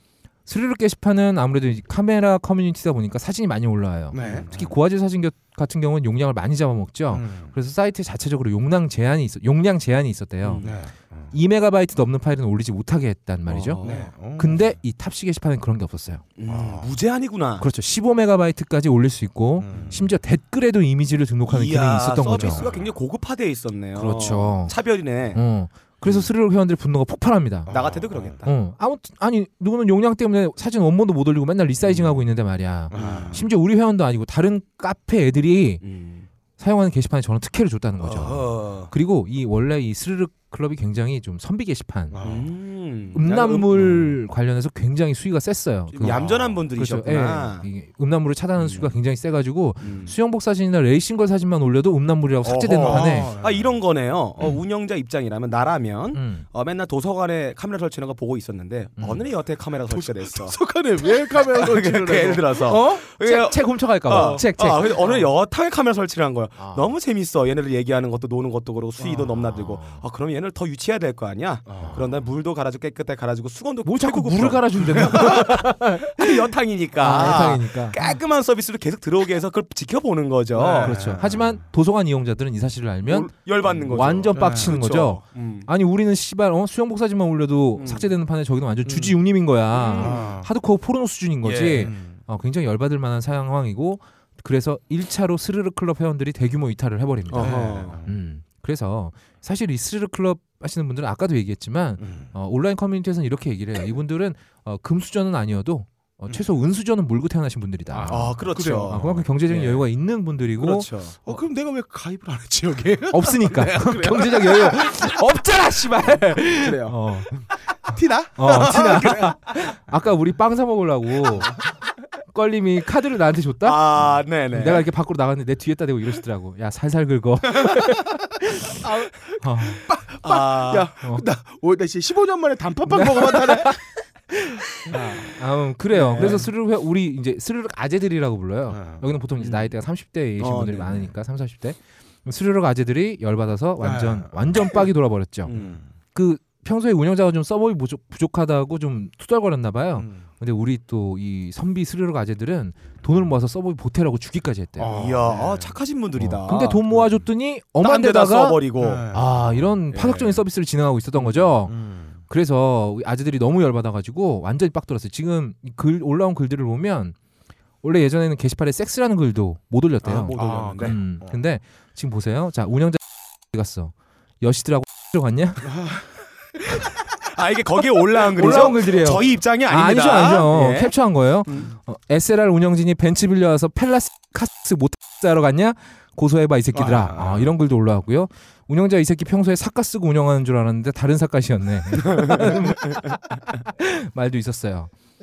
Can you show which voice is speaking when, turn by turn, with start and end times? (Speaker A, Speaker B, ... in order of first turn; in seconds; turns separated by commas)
Speaker A: 0.5-10.8, Speaker B: 4.1-4.5, Speaker C: 4.2-4.7, Speaker B: 7.1-7.5, Speaker C: 10.4-10.7, Speaker B: 10.6-11.3, Speaker A: 11.3-13.8, Speaker C: 13.5-14.1, Speaker B: 13.8-14.6, Speaker A: 14.3-16.3, Speaker C: 16.4-17.7, Speaker B: 16.5-16.9, Speaker A: 17.6-22.7, Speaker B: 19.6-20.1, Speaker C: 21.5-25.4, Speaker B: 22.5-22.9, Speaker A: 23.9-24.7, Speaker A: 25.3-27.7, Speaker B: 27.7-28.4, Speaker C: 27.7-28.5, Speaker A: 28.4-35.8, Speaker C: 31.8-32.2, Speaker C: 32.9-33.4, Speaker B: 32.9-33.4, Speaker C: 35.8-36.3, Speaker A: 36.6-42.2, Speaker C: 38.0-38.9, Speaker B: 42.1-42.5, Speaker C: 42.2-44.2, Speaker A: 43.1-53.3, Speaker C: 45.9-47.7, Speaker B: 46.0-46.4, Speaker C: 48.6-48.9, Speaker C: 49.8-50.1, Speaker C: 52.4-60.6, Speaker B: 52.8-53.8, Speaker A: 56.1-56.5, Speaker A: 59.0-59.2, Speaker B: 59.9-63.0, Speaker C: 61.4-81.0, Speaker A: 62.9-65.1, Speaker B: 64.1-64.4, Speaker A: 66.6-66.9, Speaker B: 69.0-69.3, Speaker A: 69.4-70.0, Speaker B: 71.7-72.0, Speaker A: 71.8-72.0, Speaker A: 73.8-78.0, Speaker B: 80.5-81.5, Speaker A: 80.8-111.4, Speaker C: 83.0-85.7, Speaker B: 84.3-84.8, Speaker C: 87.8-88.1, Speaker C: 88.9-89.1, Speaker C: 89.8-90.2, Speaker B: 89.9-90.5, Speaker C: 91.4-91.9, Speaker B: 91.8-92.2, Speaker C: 97.3-98.0, Speaker B: 97.4-98.1, Speaker B: 102.0-102.3, Speaker B: 107.9-109.1, Speaker C: 108.1-109.8, Speaker C: 110.6-111.2, Speaker B: 111.2-115.1, Speaker A: 113.1-117.3, Speaker B: 116.1-117.0, Speaker B: 117.8-119.7, Speaker A: 118.3-121.6, Speaker A: 122.3-128.8, Speaker C: 123.6-124.9, Speaker B: 128.8-133.8, Speaker A: 129.4-129.8, Speaker C: 130.2-130.9, Speaker A: 132.9-133.8, Speaker A: 134.3-145.5, Speaker B: 134.9-135.3, Speaker B: 136.0-136.4, Speaker C: 136.1-136.4, Speaker B: 138.7-139.0, Speaker C: 139.4-139.7, Speaker C: 140.4-141.1, Speaker B: 143.8-144.7, Speaker C: 145.4-145.8, Speaker B: 145.5-145.8, Speaker A: 146.1-154.9, Speaker B: 150.0-150.2, Speaker B: 154.8-155.7, Speaker C: 154.9-156.8, Speaker A: 156.2-167.1, Speaker C: 157.8-159.1, Speaker B: 158.8-159.4, Speaker C: 159.9-160.4, Speaker B: 161.6-162.2, Speaker A: 167.8-175.8, Speaker C: 170.0-171.0, Speaker B: 170.3-171.4, Speaker B: 175.6-176.7, Speaker C: 177.2-180.9, Speaker A: 178.3-194.9, Speaker B: 178.4-178.9, Speaker C: 181.5-181.8, Speaker B: 186.7-187.5, Speaker C: 192.1-193.1